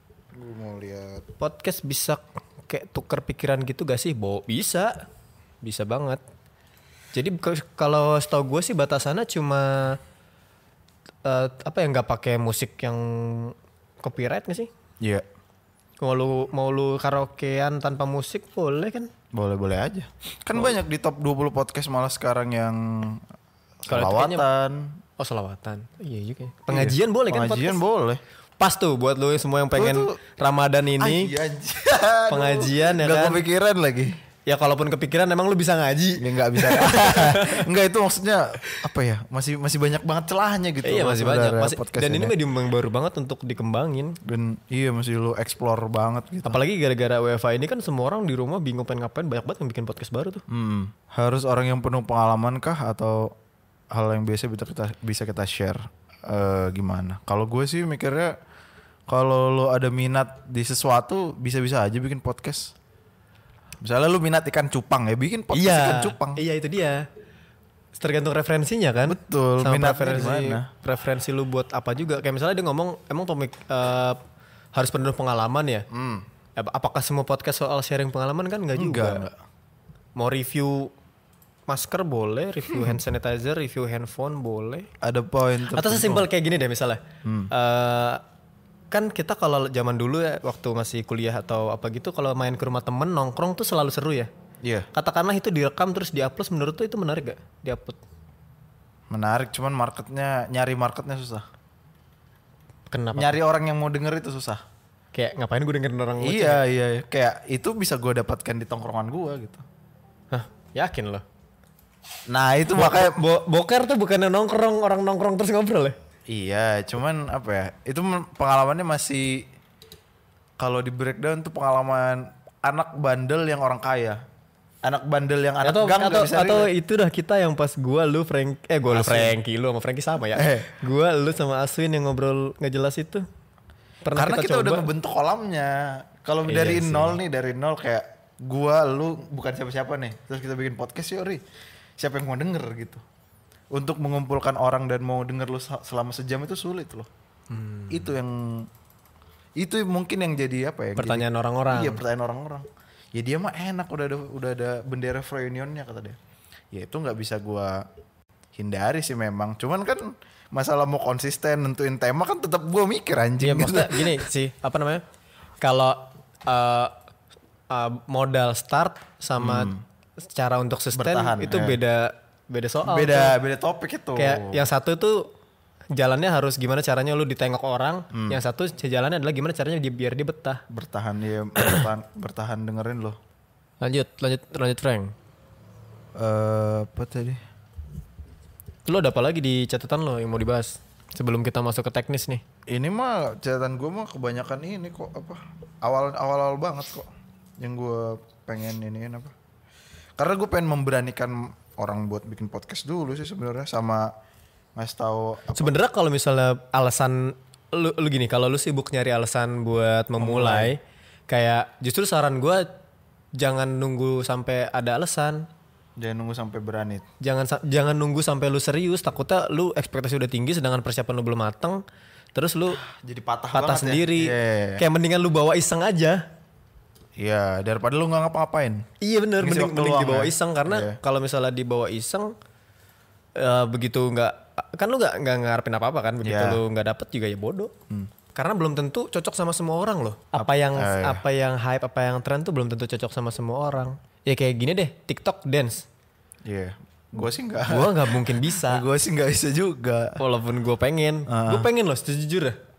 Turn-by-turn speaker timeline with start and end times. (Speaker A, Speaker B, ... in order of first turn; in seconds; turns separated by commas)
Speaker A: 0.3-1.3, Speaker B: 1.4-5.0, Speaker B: 5.6-6.2, Speaker B: 7.1-10.0, Speaker B: 11.2-14.7, Speaker B: 16.0-19.1, Speaker A: 19.3-23.2, Speaker A: 23.8-25.0, Speaker B: 23.9-24.5, Speaker B: 25.2-27.8, Speaker A: 26.7-28.2, Speaker B: 28.6-31.3, Speaker A: 29.7-30.2, Speaker A: 31.0-34.1, Speaker B: 32.3-33.4, Speaker B: 34.5-37.7, Speaker A: 36.2-42.4, Speaker B: 40.8-44.2, Speaker A: 44.2-46.6, Speaker B: 46.5-50.4, Speaker A: 50.5-53.4, Speaker A: 53.9-58.4, Speaker A: 59.1-62.7, Speaker A: 63.8-66.4, Speaker B: 65.5-67.1, Speaker B: 68.0-74.2, Speaker A: 69.1-70.7, Speaker B: 74.7-75.9, Speaker A: 75.9-76.2, Speaker B: 76.6-79.3, Speaker A: 78.8-79.4, Speaker B: 80.2-80.9, Speaker B: 81.7-84.9, Speaker A: 85.0-86.3, Speaker B: 85.7-88.2, Speaker A: 87.2-87.5, Speaker B: 88.9-94.3, Speaker A: 94.6-94.9, Speaker B: 94.9-98.0, Speaker A: 99.1-101.5, Speaker B: 102.9-103.4, Speaker A: 103.1-104.6, Speaker B: 105.1-106.6, Speaker A: 106.2-109.6, Speaker B: 110.3-111.2, Speaker A: 112.3-113.2, Speaker B: 112.7-116.0, Speaker A: 116.3-119.5, Speaker A: 120.6-124.2, Speaker A: 124.8-126.7, Speaker B: 125.6-133.3, Speaker A: 128.9-129.3, Speaker A: 130.3-130.8, Speaker B: 134.0-134.9, Speaker A: 134.1-141.4, Speaker B: 136.5-137.2, Speaker A: 142.0-143.0, Speaker A: 143.7-147.1, Speaker B: 147.5-148.1, Speaker A: 147.9-148.7, Speaker A: 149.6-156.2, Speaker B: 151.0-152.0, Speaker A: 156.7-157.8, Speaker A: 158.6-164.2, Speaker B: 163.4-165.0, Speaker B: 165.6-166.9, Speaker B: 167.7-173.4, Speaker A: 169.4-169.8, Speaker A: 170.9-171.8, Speaker A: 172.8-174.7, Speaker B: 174.2-175.3, Speaker B: 175.9-180.6, Speaker A: 178.1-178.4, Speaker A: 180.7-183.2, Speaker B: 181.6-181.8, Speaker B: 183.8-185.2, Speaker A: 186.2-187.4, Speaker B: 188.9-192.4, Speaker A: 192.7-197.1, Speaker A: 197.6-199.3, Speaker A: 200.2-204.1, Speaker A: 204.8-205.8, Speaker B: 205.6-212.7, Speaker A: 210.2-210.7, Speaker B: 213.3-215.5, Speaker A: 216.0-217.1, Speaker B: 217.2-221.8, Speaker B: 222.3-222.8, Speaker A: 222.8-224.8, Speaker B: 223.5-226.3, Speaker A: 227.2-228.9, Speaker B: 229.0-232.3, Speaker A: 229.4-231.0, Speaker B: 233.4-237.7, Speaker A: 236.2-236.6, Speaker B: 238.3-245.9, Speaker A: 240.3-241.2, Speaker A: 246.5-250.2, Speaker B: 247.7-248.9, Speaker B: 250.2-252.6, Speaker A: 251.3-251.7